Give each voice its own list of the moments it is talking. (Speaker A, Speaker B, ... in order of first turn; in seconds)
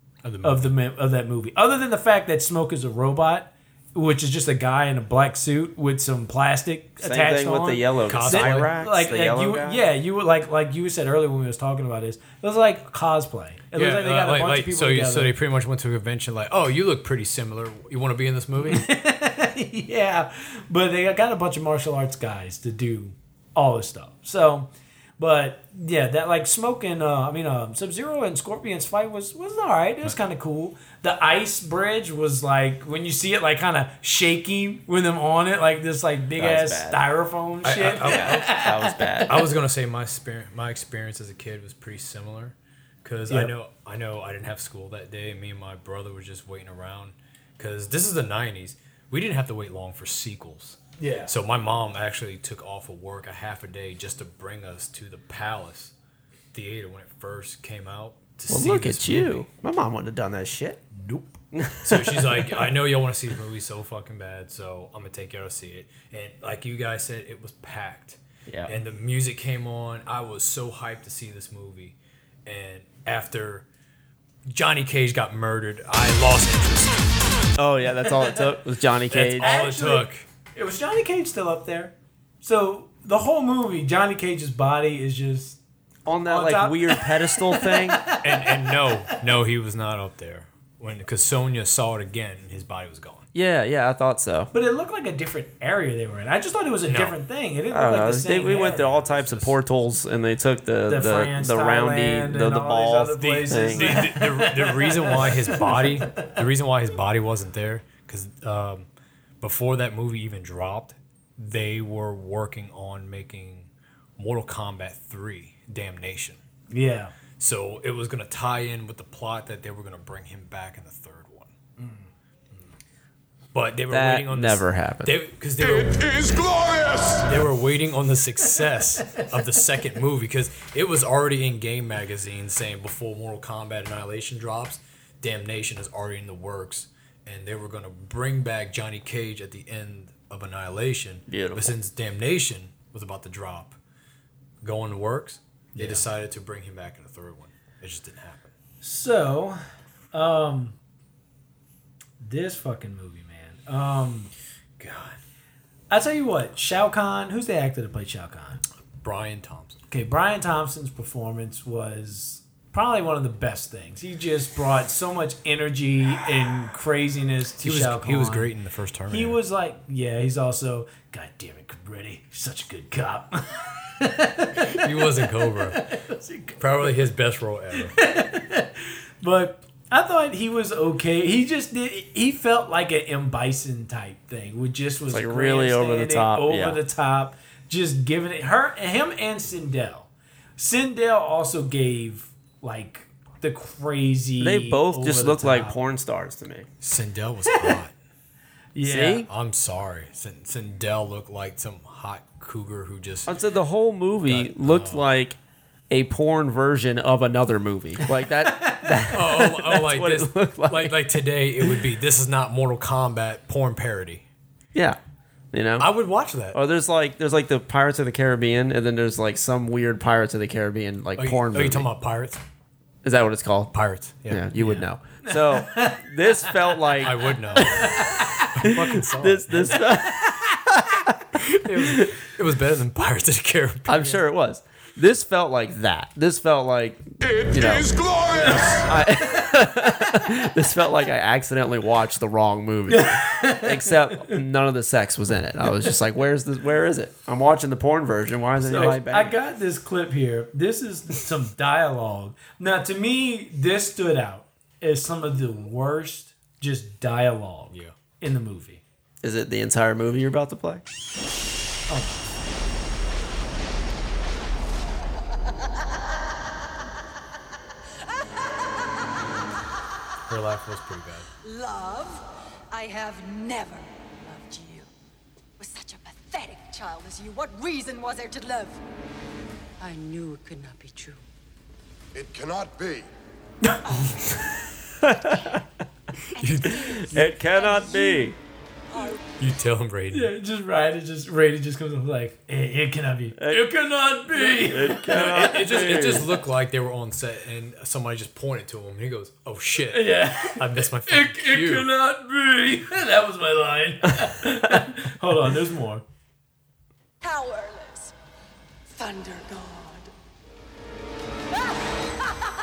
Speaker A: 0.2-0.7, 8.1-8.8, 13.7-18.9, 37.6-38.5, 39.3-55.9, 56.5-59.5, 61.8-73.7, 74.5-77.0, 79.1-80.2, 88.2-93.3, 96.9-97.2, 98.8-99.6, 103.2-108.9, 109.4-116.4, 117.4-121.5, 123.5-126.1, 127.2-143.8, 144.6-148.5, 154.8-155.2, 159.0-159.8, 167.6-169.4, 174.8-175.8, 176.6-177.9, 196.8-197.9, 199.3-203.3, 204.2-205.1, 209.1-214.2, 215.8-216.6, 221.2-222.4, 223.7-224.9, 227.0-229.9, 231.7-234.2, 270.3-271.3, 286.4-287.2, 289.4-290.3, 295.1-301.9
Speaker B: 0.4-15.3, 18.6-39.5, 51.0-51.3, 60.9-61.4, 79.4-85.6, 86.2-89.1, 94.5-99.0, 100.9-106.4, 116.7-117.1, 145.7-146.1, 148.8-149.6, 150.1-150.8, 152.2-154.3, 155.9-158.6, 159.9-168.5, 169.1-177.0, 177.7-195.8, 197.5-197.8, 198.7-199.3, 208.4-209.0, 225.2-226.8, 227.6-228.5, 229.9-230.6, 238.4-238.7, 242.9-244.4, 248.6-258.8, 261.9-262.1, 290.1-295.9, 299.9-306.0
Speaker C: 7.0-9.8, 36.4-37.0, 38.0-39.3, 58.5-60.8, 61.5-62.5, 68.5-68.7, 77.6-79.6, 86.0-88.1, 93.3-94.5, 97.7-104.1, 123.9-125.2, 141.3-141.7, 185.1-186.8, 194.4-196.7, 198.8-199.2, 203.3-205.3, 205.9-211.0, 215.5-215.9, 216.5-221.9, 223.0-223.7, 224.3-231.0, 233.9-237.9, 238.9-249.3, 259.2-260.8, 285.0-285.6, 286.9-288.4, 293.4-293.7, 294.3-296.3
Speaker D: 125.6-127.3, 237.2-238.9, 282.2-282.9
Speaker E: 271.4-274.9, 275.6-278.8, 279.8-281.2, 286.4-288.3, 288.9-289.2, 307.2-308.1, 308.9-310.1